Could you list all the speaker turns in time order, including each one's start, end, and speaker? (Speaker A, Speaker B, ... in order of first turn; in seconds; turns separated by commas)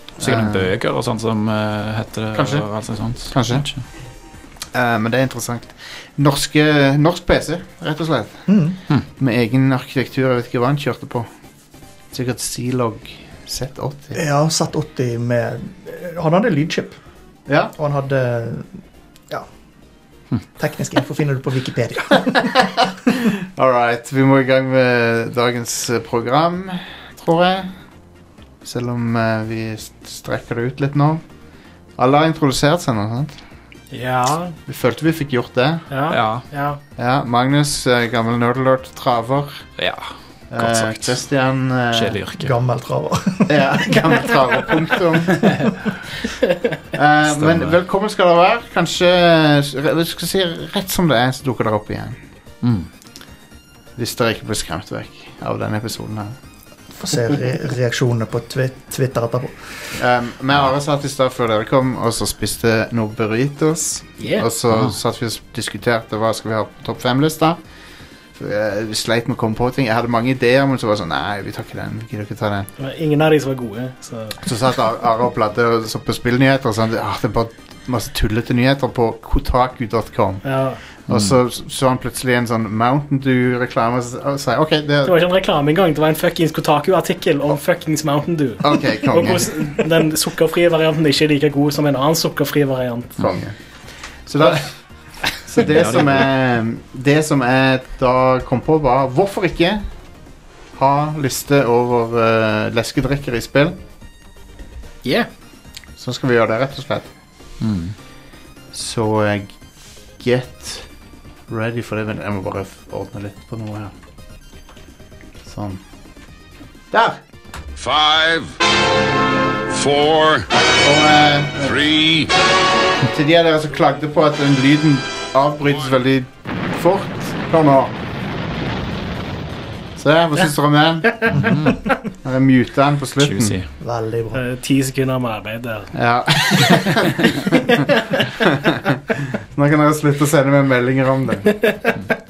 Speaker A: 0.2-0.7, Speaker B: 0.2-3.8, Speaker A: 2.3-2.7, Speaker A: 3.3-3.7, Speaker A: 4.7-11.3, Speaker C: 8.5-8.8, Speaker A: 12.1-14.2, Speaker C: 14.1-17.0, Speaker A: 17.5-17.7, Speaker C: 17.8-18.7, Speaker C: 20.6-22.7, Speaker A: 22.4-27.7, Speaker A: 28.6-31.2, Speaker A: 31.9-33.4, Speaker D: 33.9-34.5, Speaker A: 34.7-35.9, Speaker D: 35.9-36.8, Speaker B: 36.1-36.5, Speaker A: 37.0-39.7, Speaker B: 39.8-41.2, Speaker A: 40.5-42.2, Speaker B: 41.9-42.5, Speaker C: 42.4-44.0, Speaker A: 43.5-45.7, Speaker A: 46.9-52.2, Speaker B: 47.3-47.7, Speaker B: 52.6-52.9, Speaker A: 54.0-56.3, Speaker C: 57.0-59.9, Speaker A: 59.9-67.6, Speaker D: 64.2-64.5, Speaker A: 68.3-72.7, Speaker D: 72.8-74.4, Speaker A: 74.4-80.4, Speaker D: 80.4-80.8, Speaker A: 81.0-85.2, Speaker B: 81.1-81.3, Speaker D: 85.0-93.3, Speaker A: 88.6-89.8, Speaker A: 93.2-93.5, Speaker A: 94.2-94.7, Speaker A: 95.3-99.8, Speaker B: 95.6-96.3, Speaker A: 100.7-103.8, Speaker D: 105.0-105.3, Speaker A: 106.0-107.1, Speaker B: 107.6-108.0, Speaker A: 108.7-109.5, Speaker A: 110.2-110.9, Speaker A: 111.5-113.9, Speaker A: 115.4-115.8, Speaker A: 116.9-117.2, Speaker E: 117.8-118.5, Speaker E: 119.7-120.5, Speaker A: 120.8-121.8, Speaker E: 121.6-122.3, Speaker A: 123.0-128.0, Speaker A: 130.0-131.6, Speaker B: 131.3-131.9, Speaker A: 132.1-133.6, Speaker B: 133.2-133.7, Speaker C: 133.8-134.4, Speaker D: 134.3-135.9, Speaker A: 135.9-141.6, Speaker D: 137.7-138.2